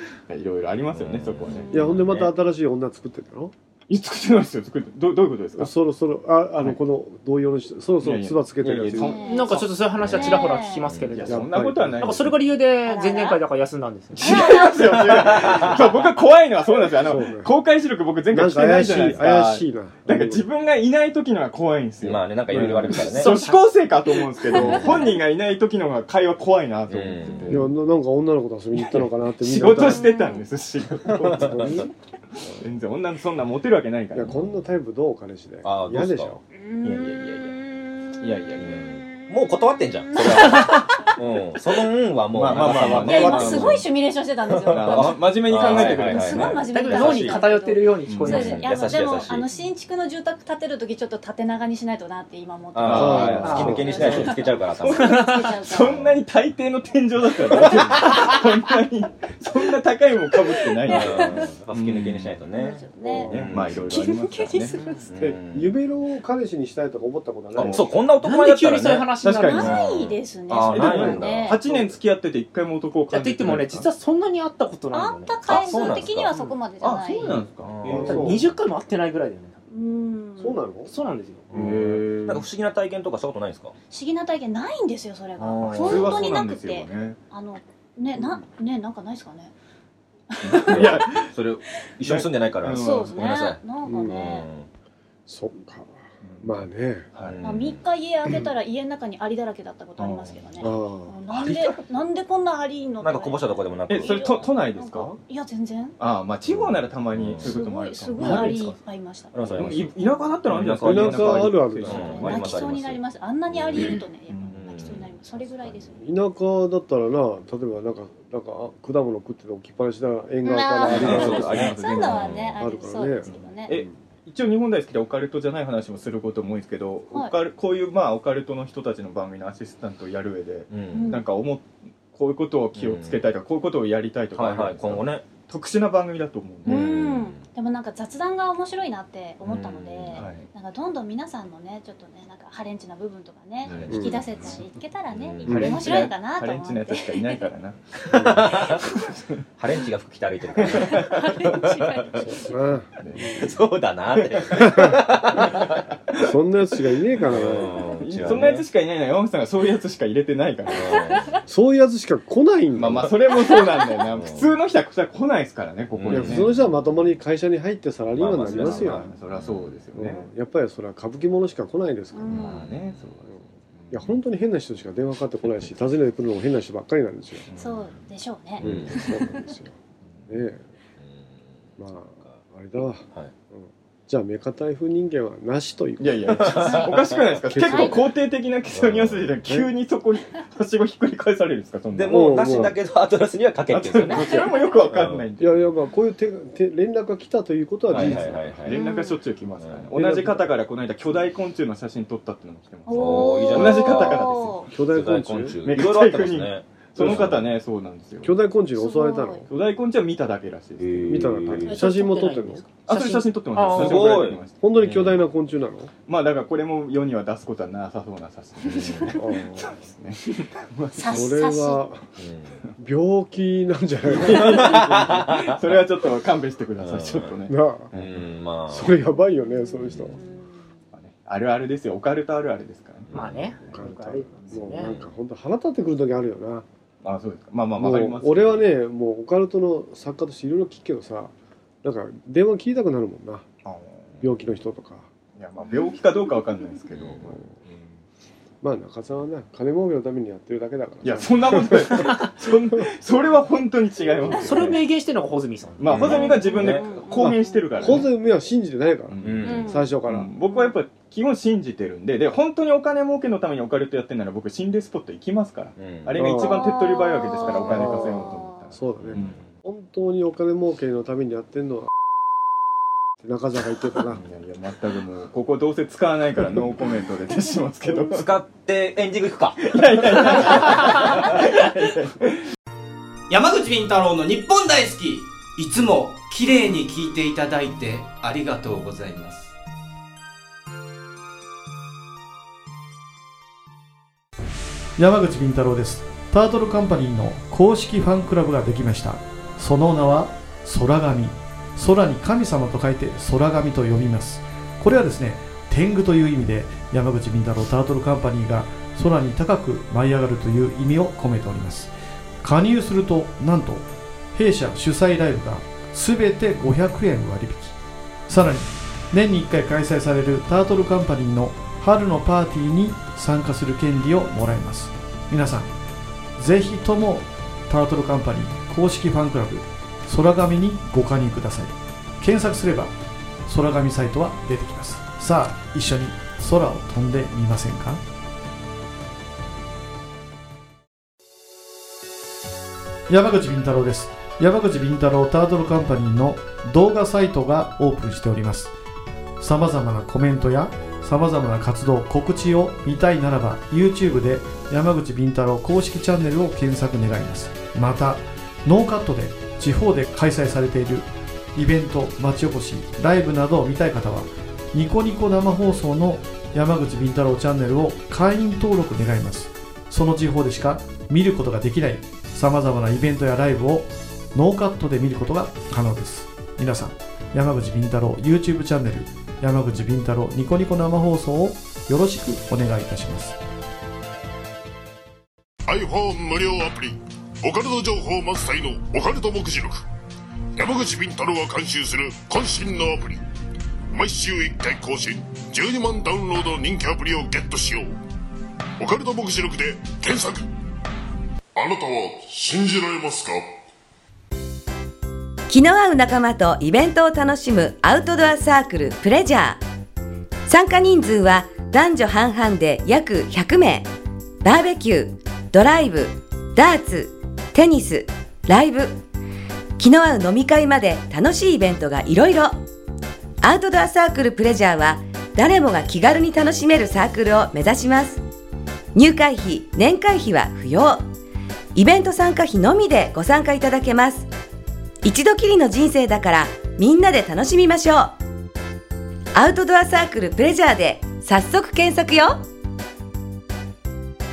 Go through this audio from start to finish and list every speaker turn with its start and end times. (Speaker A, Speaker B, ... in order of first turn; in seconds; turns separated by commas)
Speaker A: 0.3-1.7, Speaker B: 0.9-2.3, Speaker C: 1.5-1.9, Speaker D: 1.7-3.5, Speaker A: 3.9-5.7, Speaker D: 5.6-9.2, Speaker A: 8.0-10.3, Speaker C: 9.0-10.9, Speaker E: 9.2-11.4, Speaker B: 10.2-11.2, Speaker A: 11.1-12.4, Speaker D: 11.3-12.0, Speaker E: 12.0-14.4, Speaker C: 12.8-13.4, Speaker A: 14.1-27.7, Speaker C: 14.2-15.4, Speaker B: 15.2-15.8, Speaker D: 17.0-17.5, Speaker D: 18.3-20.5, Speaker B: 22.0-23.4, Speaker D: 22.5-22.9, Speaker E: 23.2-23.5, Speaker C: 24.4-25.1, Speaker B: 26.9-27.6, Speaker D: 27.5-30.1, Speaker A: 28.8-31.9, Speaker C: 29.7-30.5, Speaker D: 31.1-31.9, Speaker B: 31.2-31.6, Speaker A: 32.6-34.3, Speaker D: 34.1-36.4, Speaker B: 35.6-36.4, Speaker C: 36.5-39.4, Speaker A: 36.8-37.6, Speaker A: 38.2-38.8, Speaker B: 38.6-43.8, Speaker C: 40.1-41.2, Speaker A: 42.3-43.9, Speaker C: 42.8-56.0, Speaker B: 44.5-47.4, Speaker A: 44.7-47.4, Speaker E: 46.6-48.6, Speaker A: 48.1-48.5, Speaker B: 48.2-49.5, Speaker B: 52.7-55.3, Speaker A: 52.8-54.3, Speaker D: 52.9-54.0, Speaker E: 53.4-54.2, Speaker A: 54.9-62.4, Speaker E: 54.9-55.6, Speaker B: 55.8-56.1, Speaker C: 60.6-61.5, Speaker B: 60.9-63.9, Speaker C: 62.5-63.3, Speaker D: 63.0-63.5, Speaker A: 63.2-64.7, Speaker E: 63.9-65.0, Speaker C: 64.3-65.0, Speaker B: 65.1-65.7, Speaker D: 65.2-67.9, Speaker A: 67.5-67.9, Speaker B: 67.5-71.5, Speaker E: 68.2-69.8, Speaker A: 69.2-69.8, Speaker C: 69.5-71.6, Speaker A: 70.5-73.9, Speaker D: 71.7-71.9, Speaker E: 73.1-75.6, Speaker C: 74.9-77.4, Speaker B: 75.5-76.3, Speaker A: 76.3-78.4, Speaker B: 77.6-78.4, Speaker E: 77.8-79.6, Speaker D: 77.9-78.4, Speaker C: 79.7-80.6, Speaker D: 80.4-80.9, Speaker E: 80.9-81.5, Speaker B: 81.5-83.7, Speaker A: 81.5-82.5, Speaker C: 83.9-89.5, Speaker B: 85.4-86.3, Speaker A: 85.7-87.2, Speaker C: 90.3-91.0, Speaker B: 90.6-94.7, Speaker A: 90.6-91.3, Speaker A: 92.0-93.2, Speaker C: 92.7-94.5, Speaker D: 93.8-94.2, Speaker D: 95.3-97.1, Speaker A: 96.2-96.5, Speaker A: 97.1-97.4, Speaker B: 97.2-97.8, Speaker C: 97.4-106.0, Speaker A: 100.0-100.6, Speaker D: 100.6-101.1, Speaker B: 101.3-101.8, Speaker B: 103.0-104.2, Speaker A: 103.9-105.1, Speaker A: 106.0-108.8, Speaker B: 106.5-107.5, Speaker C: 107.4-109.4, Speaker B: 108.2-108.5, Speaker B: 109.3-109.9, Speaker A: 109.5-112.5, Speaker C: 110.0-110.2, Speaker B: 110.5-115.9, Speaker D: 110.8-112.3, Speaker C: 112.0-116.0, Speaker A: 113.7-114.6, Speaker D: 116.0-121.7, Speaker C: 120.4-123.7, Speaker A: 120.8-122.4, Speaker B: 120.9-122.6, Speaker D: 122.6-123.9, Speaker A: 123.2-136.8, Speaker B: 130.7-131.2, Speaker C: 130.9-131.3, Speaker B: 132.8-133.3, Speaker B: 134.3-135.2, Speaker B: 136.7-137.4, Speaker C: 136.7-147.5, Speaker B: 139.4-140.3, Speaker A: 140.1-140.5, Speaker A: 143.6-144.6, Speaker D: 143.9-144.3, Speaker B: 145.1-145.4, Speaker A: 145.4-149.4, Speaker D: 145.4-145.8, Speaker B: 148.1-148.8, Speaker D: 148.1-148.4, Speaker B: 149.6-152.1, Speaker A: 150.6-151.7, Speaker C: 150.8-152.2, Speaker D: 152.2-153.4, Speaker A: 153.0-153.5, Speaker B: 153.2-155.8, Speaker A: 154.1-155.4, Speaker D: 154.5-155.1, Speaker D: 156.2-158.6, Speaker B: 157.2-158.6, Speaker A: 158.0-161.0, Speaker B: 160.7-161.3, Speaker C: 160.9-161.4, Speaker D: 161.5-163.2, Speaker A: 162.7-166.5, Speaker C: 163.3-164.1, Speaker B: 164.1-164.5, Speaker B: 165.9-166.5, Speaker D: 166.1-169.1, Speaker B: 168.2-169.8, Speaker A: 168.4-170.3, Speaker D: 169.9-172.4, Speaker C: 172.1-172.7, Speaker B: 172.3-172.7, Speaker A: 172.3-174.1, Speaker D: 173.9-177.5, Speaker A: 177.5-177.9, Speaker C: 177.6-179.5, Speaker B: 178.6-179.0, Speaker A: 178.6-178.9, Speaker D: 178.6-179.7, Speaker D: 180.3-180.6, Speaker B: 181.0-181.5, Speaker D: 181.8-186.7, Speaker A: 186.0-192.7, Speaker B: 186.3-186.9, Speaker C: 186.6-188.0, Speaker D: 187.4-188.0, Speaker B: 188.7-189.3, Speaker B: 191.9-195.2, Speaker D: 192.1-192.7, Speaker A: 193.7-195.7, Speaker D: 195.4-198.6, Speaker B: 197.9-198.8, Speaker A: 197.9-204.6, Speaker C: 198.7-199.2, Speaker B: 199.6-199.9, Speaker D: 199.9-200.5, Speaker C: 202.8-204.7, Speaker B: 202.9-207.5, Speaker D: 204.7-205.6, Speaker A: 205.6-208.3, Speaker D: 207.0-207.3, Speaker D: 208.2-209.5, Speaker C: 208.8-209.4, Speaker A: 209.5-211.7, Speaker B: 210.8-211.7, Speaker D: 211.1-212.6, Speaker E: 211.6-214.3, Speaker A: 212.9-214.6, Speaker B: 213.7-215.2, Speaker D: 214.6-215.9, Speaker A: 216.1-221.2, Speaker B: 218.6-219.1, Speaker D: 219.2-219.7, Speaker C: 220.9-221.8, Speaker D: 221.0-222.0, Speaker B: 222.2-222.6, Speaker D: 222.8-225.2, Speaker A: 224.1-228.2, Speaker B: 224.2-225.5, Speaker B: 226.8-229.0, Speaker D: 227.5-227.9, Speaker D: 228.7-230.2, Speaker C: 229.5-230.7, Speaker B: 229.8-230.1, Speaker A: 230.9-233.1, Speaker B: 233.1-233.4, Speaker E: 233.1-234.9, Speaker D: 233.7-236.7, Speaker A: 237.0-238.7, Speaker D: 237.8-243.4, Speaker A: 243.6-244.3, Speaker D: 244.2-245.1, Speaker A: 245.3-247.8, Speaker B: 246.9-247.2, Speaker D: 248.6-252.1, Speaker A: 251.0-254.8, Speaker E: 254.4-256.1, Speaker A: 255.8-258.1, Speaker B: 255.9-256.3, Speaker C: 256.0-257.9, Speaker D: 257.8-260.3, Speaker A: 259.1-269.4, Speaker B: 259.2-259.7, Speaker C: 259.4-260.8, Speaker B: 265.8-266.1, Speaker D: 266.2-266.8, Speaker C: 266.4-268.6, Speaker D: 267.4-271.9, Speaker B: 269.0-269.4, Speaker D: 273.2-274.2, Speaker A: 274.1-278.4, Speaker B: 277.9-280.7, Speaker A: 279.6-282.4, Speaker F: 283.3-289.5, Speaker G: 295.0-317.7, Speaker G: 318.3-325.7, Speaker G: 326.4-332.9, Speaker G: 333.5-338.0, Speaker G: 343.1-348.7, Speaker G: 349.4-383.4, Speaker H: 385.6-389.8, Speaker H: 390.6-393.2, Speaker H: 393.9-397.9, Speaker H: 398.8-400.4, Speaker H: 401.5-403.5, Speaker I: 405.5-409.6, Speaker I: 410.5-413.9, Speaker I: 414.4-419.0, Speaker I: 419.8-422.5, Speaker I: 423.4-428.2, Speaker I: 428.9-431.0, Speaker I: 431.7-434.3, Speaker I: 435.0-438.1, Speaker I: 439.4-442.4